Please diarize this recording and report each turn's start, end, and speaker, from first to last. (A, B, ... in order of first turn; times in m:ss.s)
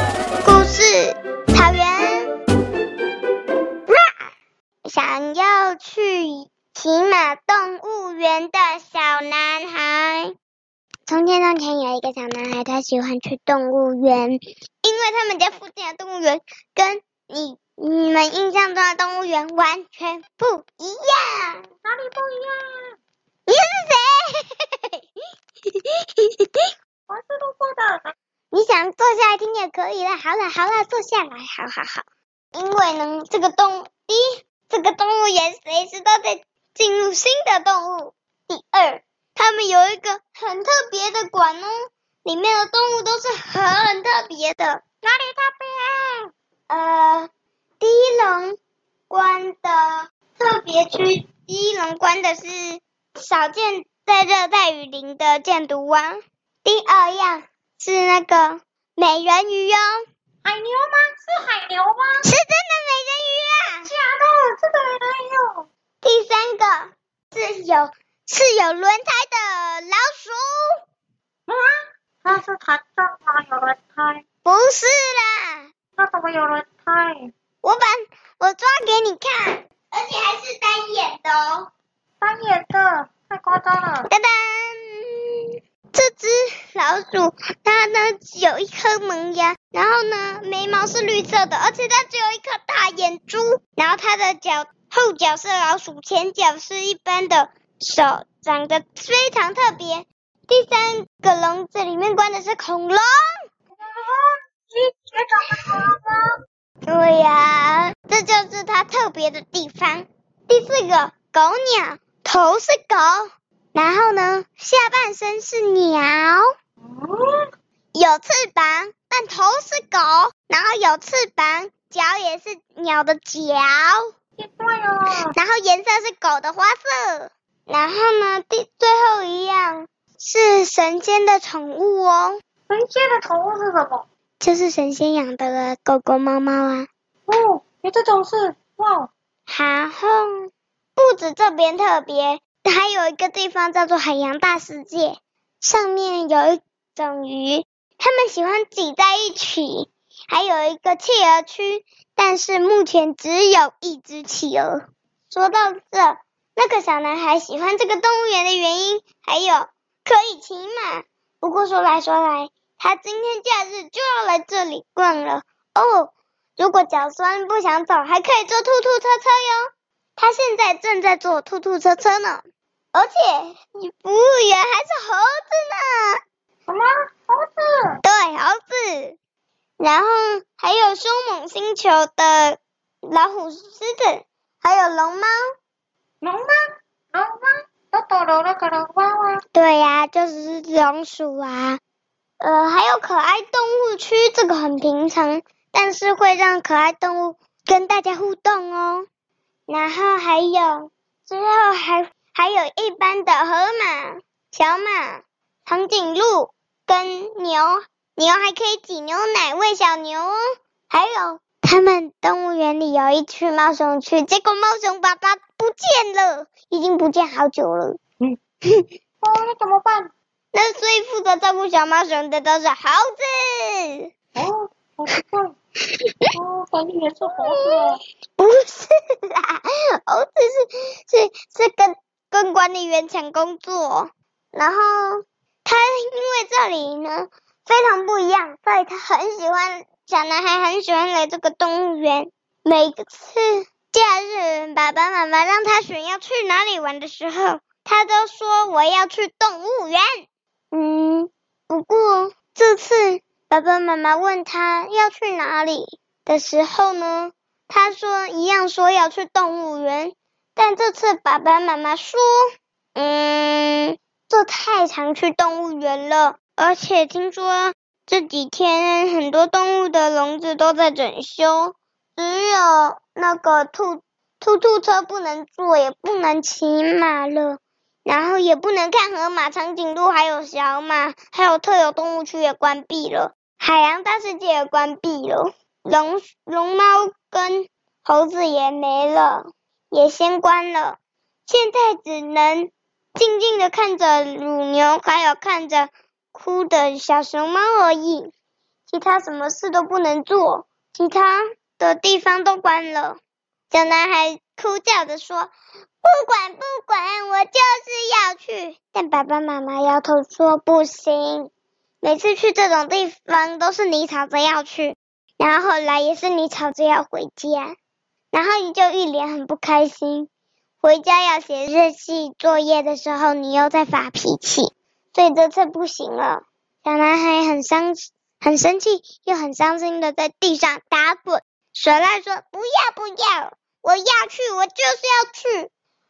0:00.4-0:02.3 A
0:03.9-0:04.3 A
0:04.9-0:10.3 A
0:11.1-0:21.6 A
0:21.8-0:23.0 B
0:23.5-0:24.9 A
0:25.7-0:26.7 A
0:27.1-0:28.1 B
0:28.5-0:44.8 A
0:45.0-0:46.3 B
0:46.7-0:47.3 A
0:47.8-0:48.6 A
0:49.1-1:00.0 A
1:00.4-1:02.3 B
1:02.2-1:03.9 A
1:03.9-1:05.7 B
1:06.0-1:10.8 A
1:11.5-1:14.2 B
1:14.4-1:15.7 A
1:16.0-1:17.3 B
1:17.6-1:21.7 A
1:22.2-1:24.1 B
1:24.1-1:43.4 A
1:43.8-1:46.4 B
1:46.8-1:56.5 A
1:56.9-1:57.5 B
1:57.9-2:04.1 A
2:04.4-2:05.3 B
2:05.2-2:12.4 A
2:12.7-2:14.0 B
2:14.4-2:16.9 A
2:17.3-2:19.1 B
2:19.5-2:34.8 A
2:35.3-2:56.2 A
2:56.7-2:58.0 B
2:58.0-2:59.2 A
2:59.8-3:05.4 A
3:06.2-3:09.4 B
3:09.5-3:11.8 A
3:12.4-3:19.1 A
3:19.7-3:30.4 A
3:30.9-3:38.0 A
3:39.2-3:40.1 B
3:40.5-3:44.1 A
3:44.4-3:45.6 B
3:46.0-3:46.3 A
3:46.3-3:48.0 B
3:47.3-4:22.4 A
4:23.0-4:58.3 A
4:58.9-5:03.2 A
5:03.7-5:05.5 A
5:06.0-5:11.5 A
5:12.0-5:17.7 A
5:18.3-5:20.3 A
5:20.8-5:35.7 A